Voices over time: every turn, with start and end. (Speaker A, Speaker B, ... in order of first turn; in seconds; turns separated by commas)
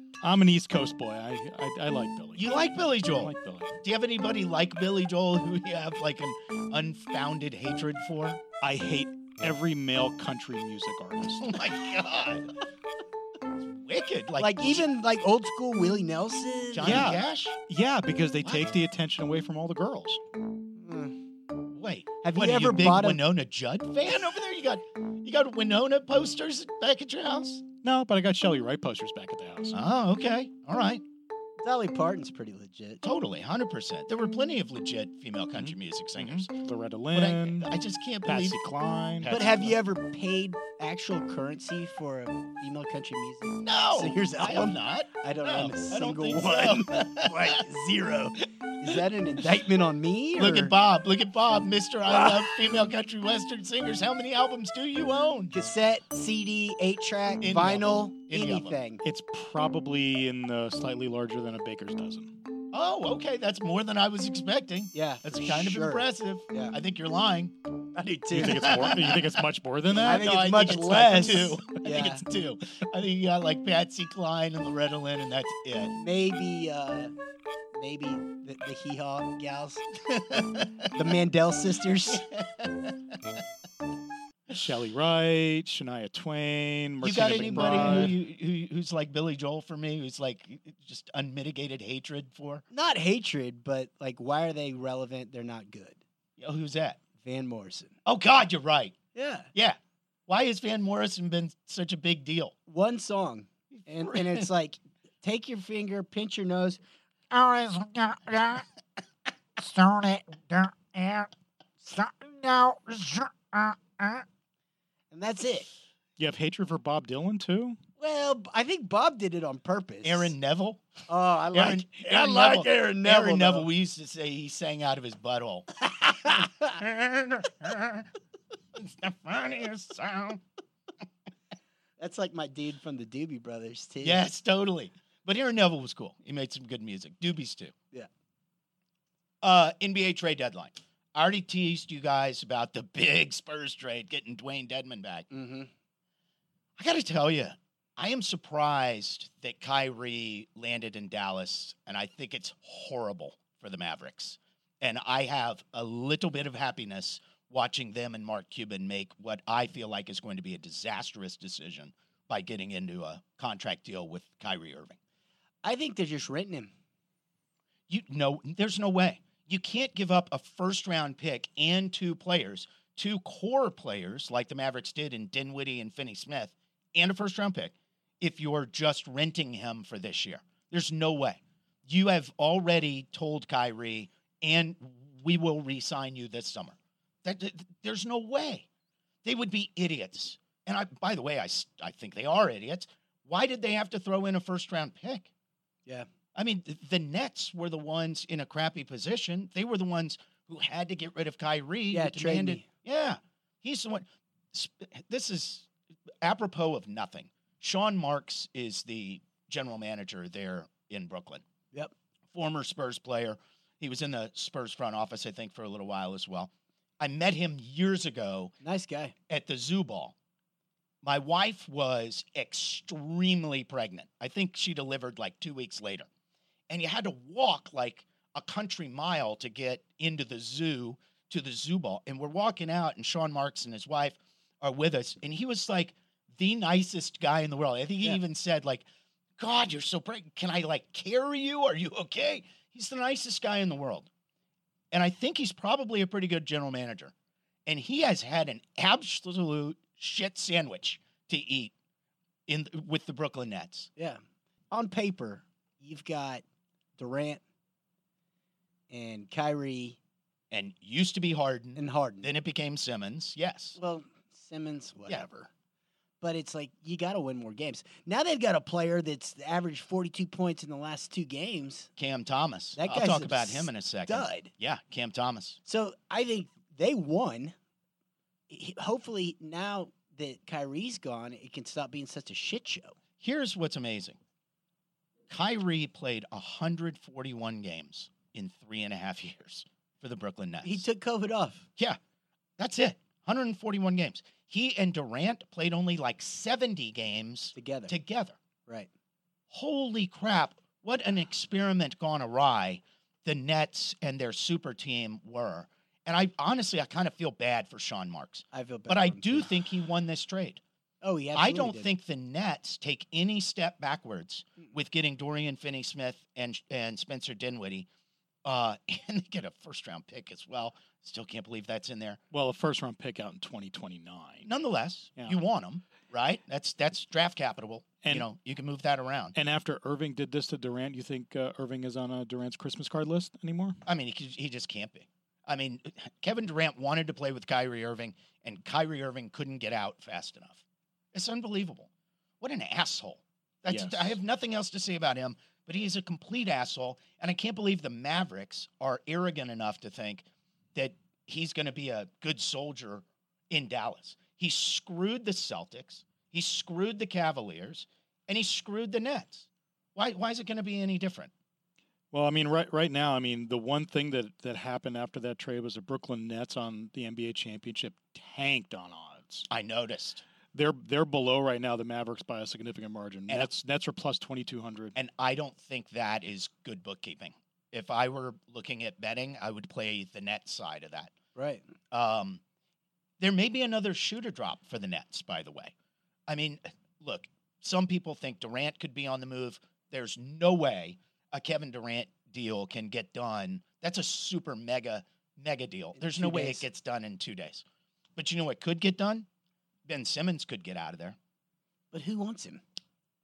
Speaker A: 0.2-3.7, Speaker B: 2.4-8.4, Speaker A: 8.6-11.6, Speaker B: 11.4-12.5, Speaker B: 13.6-14.8, Speaker C: 14.4-17.1, Speaker B: 16.7-17.6, Speaker A: 16.8-20.2, Speaker C: 20.8-21.2, Speaker B: 21.7-27.6, Speaker C: 22.2-23.2, Speaker A: 27.8-29.8, Speaker B: 29.7-31.0, Speaker C: 31.6-33.0, Speaker B: 33.0-36.5, Speaker A: 35.6-37.7, Speaker B: 37.1-38.6, Speaker A: 38.2-39.7, Speaker C: 39.2-50.7, Speaker B: 43.6-47.6, Speaker B: 50.4-55.5, Speaker C: 52.1-52.4, Speaker C: 55.5-59.0, Speaker B: 57.4-58.8, Speaker A: 59.0-62.3, Speaker B: 62.7-67.5, Speaker C: 64.9-66.8, Speaker C: 67.9-68.9, Speaker A: 68.3-70.5, Speaker B: 68.4-69.4, Speaker B: 70.0-75.9, Speaker C: 70.0-72.2, Speaker C: 76.0-77.1, Speaker C: 77.7-79.8, Speaker B: 80.0-80.9, Speaker C: 80.9-82.3, Speaker B: 82.1-83.4, Speaker A: 84.5-88.1, Speaker B: 87.0-92.6, Speaker C: 87.1-88.1, Speaker C: 92.7-96.0, Speaker B: 96.4-97.0, Speaker C: 97.2-98.0, Speaker B: 98.0-99.0, Speaker C: 99.1-99.5, Speaker B: 99.5-102.5, Speaker C: 102.7-106.8, Speaker B: 103.7-104.5, Speaker C: 107.3-108.6, Speaker C: 109.6-111.3, Speaker C: 111.8-114.2, Speaker C: 115.1-115.7, Speaker A: 116.2-117.8, Speaker C: 118.0-120.3, Speaker B: 120.0-120.8, Speaker C: 121.1-123.7, Speaker B: 121.5-128.1, Speaker B: 128.7-130.4, Speaker C: 132.0-134.2, Speaker B: 134.0-137.7, Speaker B: 139.4-145.3, Speaker C: 145.3-145.7, Speaker B: 146.8-165.0, Speaker C: 165.6-166.7, Speaker B: 167.9-188.7, Speaker B: 189.2-195.3, Speaker B: 196.3-205.7, Speaker C: 201.9-202.7, Speaker B: 206.2-211.4, Speaker B: 212.3-218.5, Speaker C: 218.6-219.1, Speaker B: 219.3-220.1, Speaker B: 221.0-226.1, Speaker B: 226.7-238.8, Speaker B: 239.4-244.1, Speaker B: 244.9-247.1, Speaker B: 247.7-251.7, Speaker B: 252.5-253.9, Speaker C: 254.7-256.4, Speaker C: 257.0-257.4, Speaker C: 258.9-260.0, Speaker B: 260.5-263.8, Speaker C: 261.8-262.3, Speaker C: 263.8-265.3, Speaker B: 265.1-265.5, Speaker C: 266.2-271.9, Speaker B: 272.0-275.6, Speaker C: 272.8-274.5, Speaker C: 275.6-277.5, Speaker C: 278.5-282.9, Speaker B: 283.2-284.2, Speaker B: 285.3-290.8, Speaker C: 290.6-291.6, Speaker B: 292.6-298.4, Speaker C: 297.5-297.9, Speaker B: 299.5-310.6, Speaker C: 308.5-309.5, Speaker C: 311.0-311.9, Speaker B: 311.3-317.9, Speaker B: 318.4-322.2, Speaker A: 322.3-324.5, Speaker B: 324.4-329.3, Speaker A: 329.4-333.8, Speaker B: 333.8-341.9, Speaker B: 342.4-361.3, Speaker A: 343.7-344.1, Speaker A: 362.1-369.5, Speaker B: 369.5-370.2, Speaker A: 370.5-374.9, Speaker B: 374.9-381.1, Speaker C: 381.3-381.6, Speaker B: 381.9-382.4, Speaker B: 383.2-385.7, Speaker B: 386.3-397.6, Speaker C: 396.0-396.6, Speaker B: 398.1-399.2, Speaker B: 399.8-401.2, Speaker C: 401.9-402.6